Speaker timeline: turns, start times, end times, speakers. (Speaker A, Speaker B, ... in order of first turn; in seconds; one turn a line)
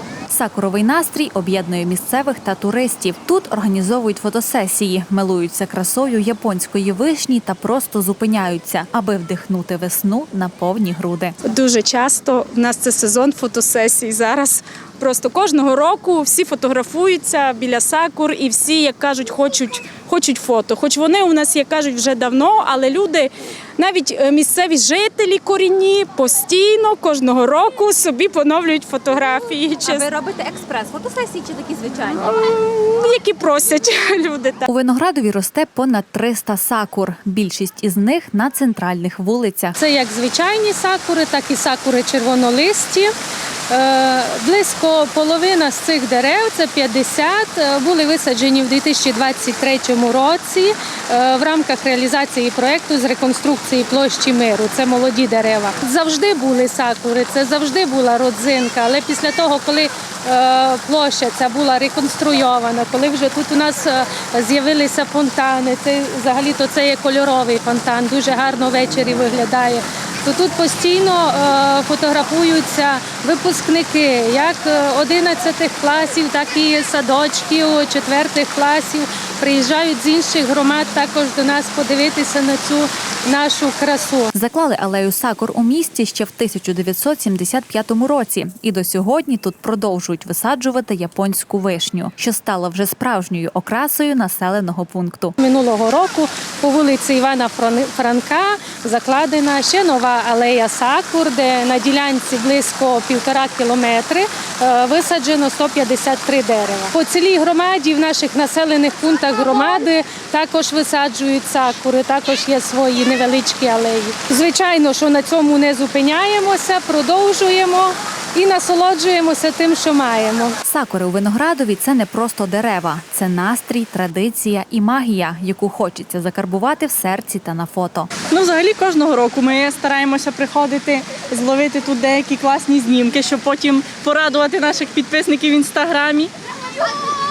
Speaker A: 0.3-11.3
Speaker B: 11.4-30.1
Speaker C: 30.1-32.0
Speaker B: 32.2-34.6
Speaker A: 34.7-39.8
Speaker D: 39.8-43.1
Speaker D: 43.7-84.3
Speaker A: 84.3-95.3
Speaker D: 95.4-120.6
Speaker A: 120.6-128.1
Speaker E: 128.3-136.3